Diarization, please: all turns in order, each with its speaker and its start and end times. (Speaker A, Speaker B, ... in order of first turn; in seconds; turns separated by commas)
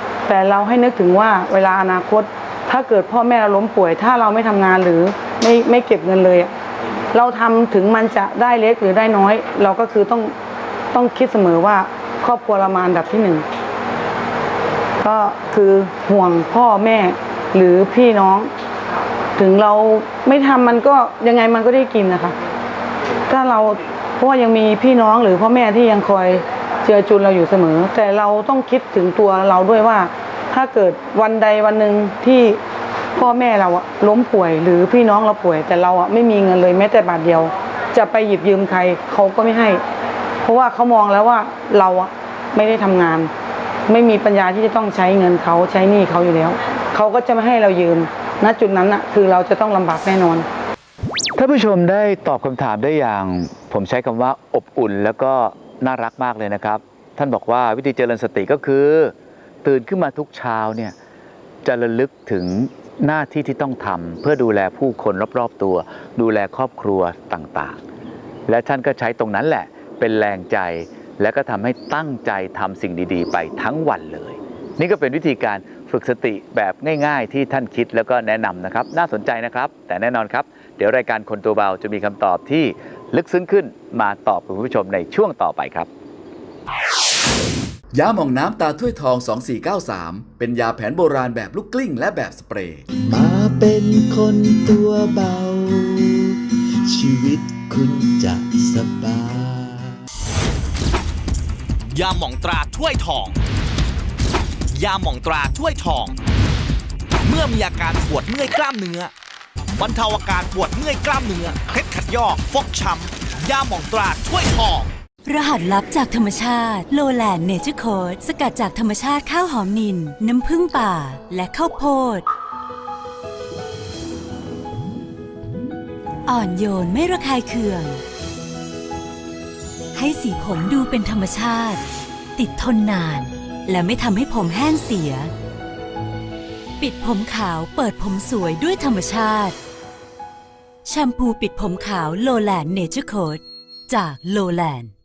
Speaker A: 0.2-6.5, Speaker A: 7.1-10.3, Speaker A: 10.9-13.4, Speaker A: 15.0-18.5, Speaker A: 19.4-22.3, Speaker A: 23.3-32.6, Speaker A: 33.1-39.8, Speaker A: 40.4-43.3, Speaker A: 43.9-50.5, Speaker B: 51.4-60.9, Speaker B: 61.6-67.8, Speaker B: 68.5-85.9, Speaker C: 87.9-92.8, Speaker D: 93.0-100.0, Speaker E: 101.9-103.4, Speaker E: 104.7-106.2, Speaker E: 107.2-109.1, Speaker E: 109.7-114.9, Speaker F: 115.2-122.2, Speaker F: 126.3-128.0, Speaker F: 129.9-131.8, Speaker F: 132.3-135.3, Speaker F: 136.8-139.6, Speaker F: 140.8-144.9